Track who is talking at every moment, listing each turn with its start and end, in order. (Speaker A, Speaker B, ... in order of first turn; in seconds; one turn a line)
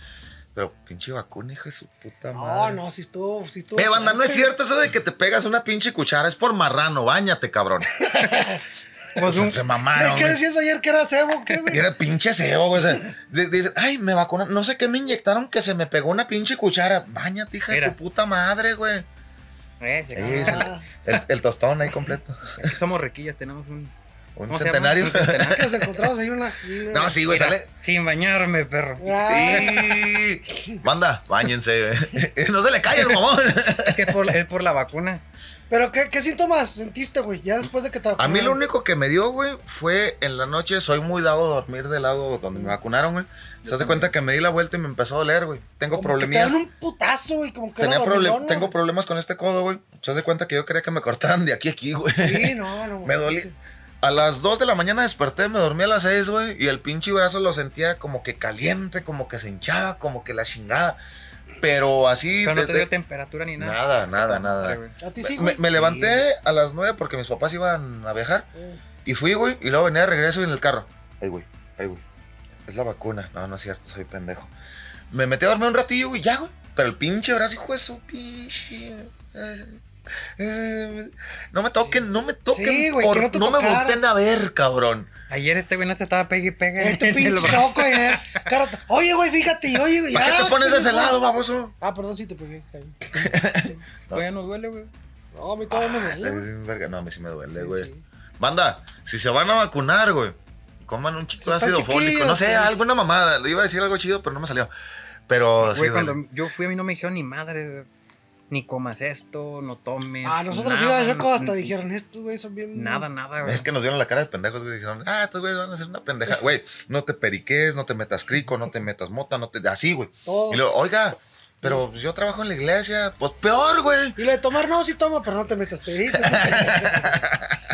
Speaker A: 0.5-2.8
Speaker B: 2.3-4.5
Speaker A: 3.8-7.9
Speaker B: 8.0-8.6
Speaker C: 9.2-9.6
Speaker A: 9.2-10.4
Speaker B: 9.9-11.8
Speaker A: 11.7-19.1
Speaker C: 17.7-18.0
Speaker C: 19.8-21.2
Speaker A: 20.1-22.7
Speaker B: 20.4-20.8
Speaker C: 22.6-23.9
Speaker A: 24.4-25.7
Speaker C: 24.5-25.8
Speaker B: 25.5-27.2
Speaker A: 26.9-27.7
Speaker C: 27.2-29.6
Speaker B: 29.0-30.1
Speaker A: 29.3-34.3
Speaker C: 33.9-35.2
Speaker B: 35.7-38.6
Speaker A: 38.2-46.6
Speaker C: 43.6-44.1
Speaker B: 45.9-48.7
Speaker A: 47.8-53.5
Speaker B: 52.1-53.5
Speaker A: 54.0-61.0
Speaker A: 61.6-62.9
Speaker C: 62.4-64.9
Speaker A: 63.6-68.5
Speaker B: 65.0-65.6
Speaker C: 65.7-66.2
Speaker B: 68.5-68.8
Speaker A: 69.0-72.0
Speaker A: 72.7-74.5
Speaker A: 75.1-79.8
Speaker A: 80.4-85.1
Speaker B: 82.5-84.0
Speaker C: 85.3-88.5
Speaker B: 86.8-91.2
Speaker A: 90.1-91.7
Speaker B: 91.8-93.3
Speaker A: 93.1-94.2
Speaker C: 94.0-94.9
Speaker B: 95.3-96.5
Speaker A: 95.7-97.9
Speaker B: 97.5-98.0
Speaker A: 98.4-104.7
Speaker B: 101.4-102.7
Speaker A: 105.3-106.2
Speaker C: 105.6-107.9
Speaker C: 108.5-111.7
Speaker B: 110.2-113.0
Speaker C: 112.7-113.7
Speaker A: 113.4-124.2
Speaker B: 120.2-120.6
Speaker B: 124.2-127.3
Speaker A: 126.1-127.6